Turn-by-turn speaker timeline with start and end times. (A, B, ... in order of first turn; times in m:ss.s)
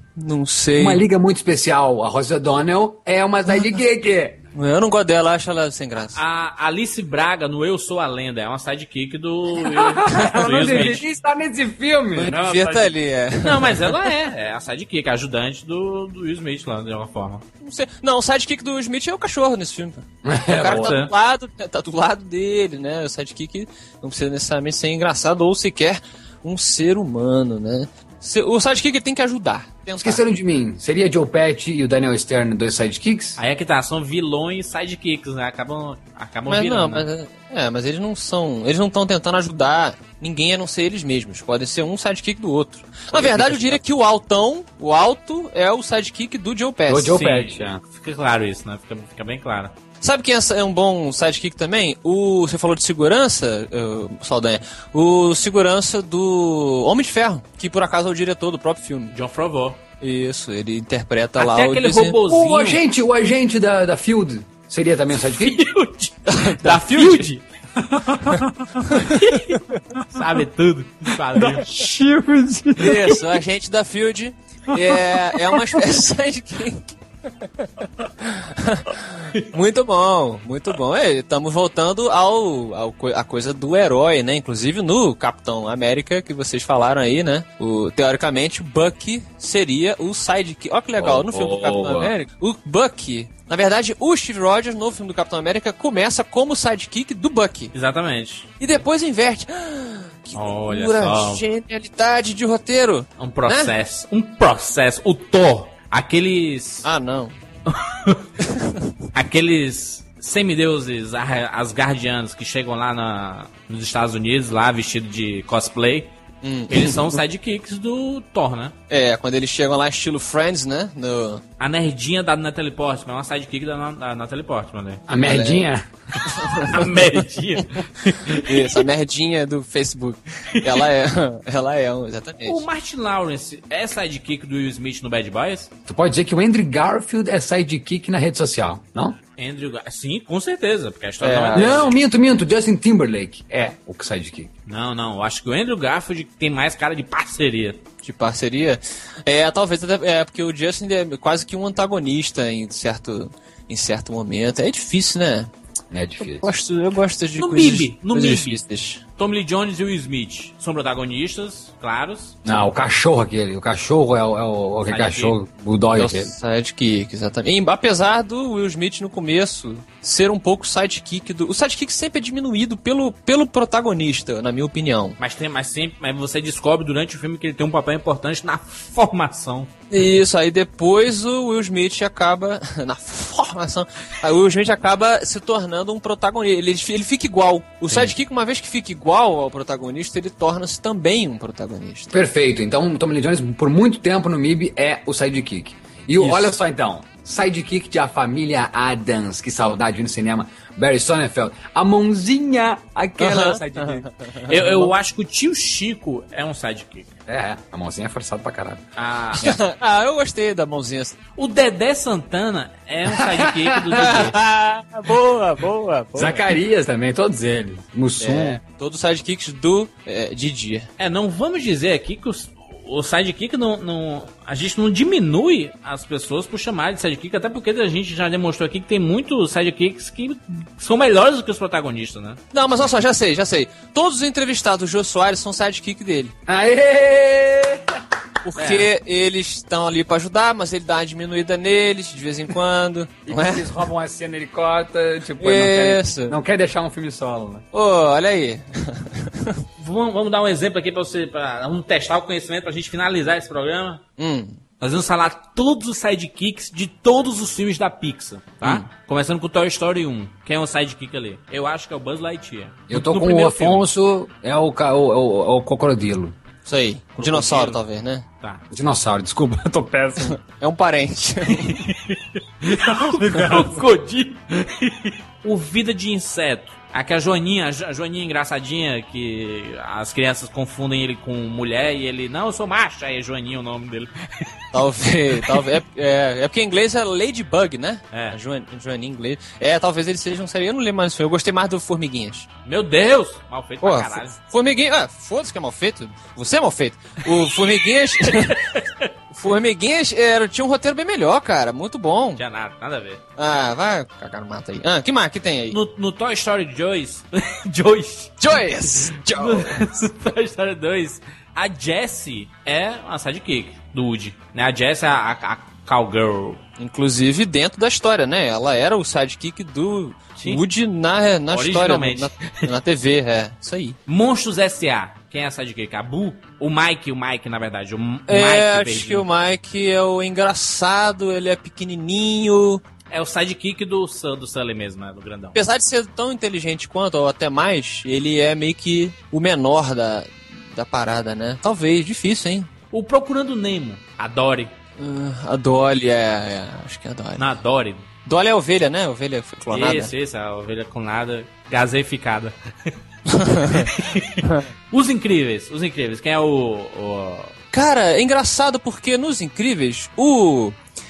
0:00.2-0:01.0 A
0:00.8-0:04.4 B
0:04.5-0:06.2 A
0:06.1-0:11.0 C
0:09.6-0:12.9 B
0:12.1-0:14.1 A
0:13.4-0:17.4 C
0:17.6-0:30.2 A
0:20.2-0:21.0 B
0:20.6-0:21.1 C
0:30.0-0:33.4 B
0:33.4-0:37.1 C
0:36.5-0:47.2 A
0:43.1-0:43.8 C
0:46.9-0:47.8 B
0:47.1-0:49.7 C
0:50.0-0:59.1 A
0:59.1-0:59.8 C
1:00.0-1:02.2 A
1:01.4-1:02.8 C
1:02.2-1:05.7 B
1:05.2-1:07.4 C
1:06.2-1:07.3 A
1:07.9-1:08.8 B
1:08.9-1:11.7 C
1:11.3-1:13.2 B
1:12.8-1:37.7 A
1:15.1-1:15.8 B
1:31.0-1:32.1 B
1:37.7-1:38.5 C
1:38.6-1:43.7 A
1:40.3-1:41.4 C
1:43.2-1:46.8 C
1:46.8-1:47.3 A
1:47.7-1:48.2 C
1:48.4-1:48.9 A
1:49.1-1:56.1 C
1:56.4-1:57.2 A
1:56.7-1:58.7 C
1:58.9-2:01.4 A
2:01.6-2:05.0 C
2:05.1-2:06.3 B
2:05.2-2:05.6 A
2:06.2-2:06.9 A
2:06.7-2:08.8 C
2:08.4-2:12.6 A
2:10.5-2:10.9 C
2:12.4-2:15.7 C
2:15.9-2:19.2 B
2:19.4-2:21.9 C
2:21.2-2:21.9 A
2:21.5-2:24.5 B
2:24.7-2:27.8 C
2:28.0-2:35.5 A
2:35.9-2:36.5 B
2:36.2-2:39.0 A
2:37.4-2:38.6 C
2:39.2-2:42.4 C
2:42.4-2:46.3 B
2:44.8-2:45.4 C
2:46.0-2:55.2 A
2:55.2-2:59.7 C
2:59.9-3:12.1 A
3:12.1-3:24.1 B
3:16.2-3:16.5 A
3:23.2-3:24.9 A
3:24.5-3:27.1 C
3:27.3-3:28.8 B
3:29.0-3:29.6 C
3:29.3-3:31.2 A
3:31.4-3:34.4 C
3:33.2-3:34.2 B
3:33.9-3:36.5 A
3:36.1-3:38.6 B
3:38.2-3:40.9 A
3:41.0-3:52.4 C
3:52.5-3:56.3 A
3:56.5-3:57.8 B
3:58.4-4:03.7 A
4:03.3-4:07.6 B
4:05.4-4:06.4 A
4:07.7-4:09.6 A
4:09.8-4:14.0 C
4:14.2-4:14.6 A
4:14.8-4:23.9 C
4:22.9-4:26.4 B
4:26.6-4:28.2 A
4:27.2-4:27.8 C
4:28.7-4:30.4 B
4:30.3-4:31.8 A
4:31.6-4:44.5 C
4:33.2-4:33.7 B
4:44.7-4:52.5 A
4:52.6-4:54.3 C
4:53.8-4:58.6 A
4:58.2-4:59.1 C
4:59.3-5:02.4 A
5:02.4-5:03.2 C
5:03.4-5:05.8 A
5:05.7-5:16.6 C
5:08.4-5:09.8 A
5:16.8-5:24.0 A
5:20.4-5:20.6 C
5:21.5-5:22.7 C
5:24.1-5:29.3 C
5:28.3-5:32.8 A
5:33.1-5:35.6 C
5:35.5-5:42.7 A
5:42.9-5:44.7 C
5:45.0-5:47.4 A
5:47.4-5:48.1 C
5:48.2-5:50.1 A
5:49.7-5:52.5 C
5:53.3-5:54.6 A
5:53.7-5:57.5 C
5:57.7-6:00.8 A